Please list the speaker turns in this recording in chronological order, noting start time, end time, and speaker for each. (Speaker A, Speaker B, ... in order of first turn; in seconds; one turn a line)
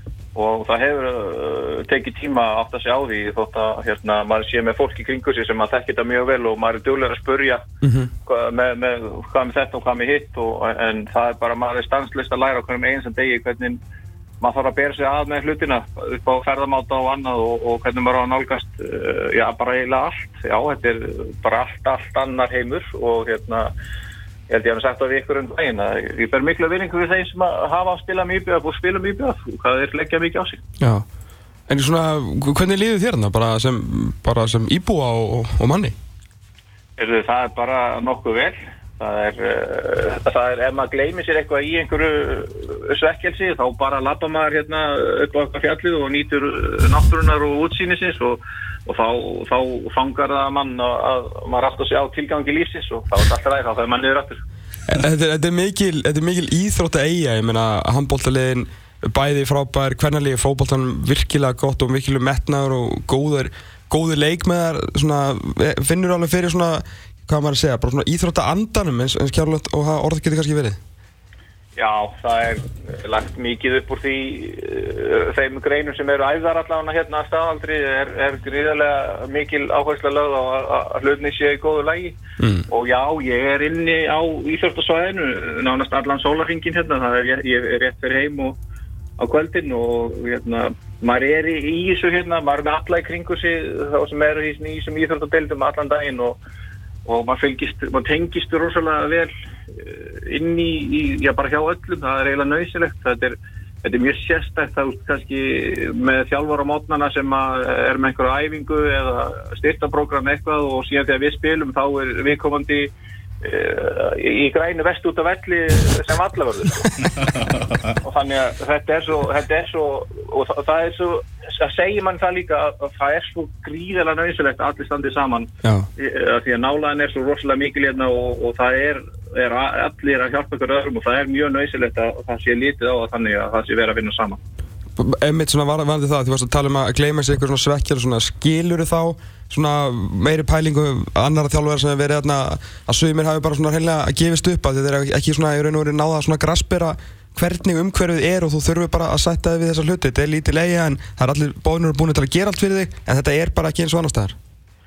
Speaker A: 0.3-7.6
Speaker B: 7.8-8.1
Speaker A: 8.2-13.8
Speaker A: 14.4-23.7
Speaker A: 24.5-30.6
Speaker B: 31.7-35.9
Speaker A: 37.0-54.4
Speaker B: 54.9-70.8
Speaker A: 71.8-82.2
Speaker B: 82.4-82.7
Speaker A: 82.7-88.6
Speaker A: 89.2-96.4
Speaker A: 97.1-116.9
Speaker A: 118.0-134.4
Speaker B: 135.0-154.3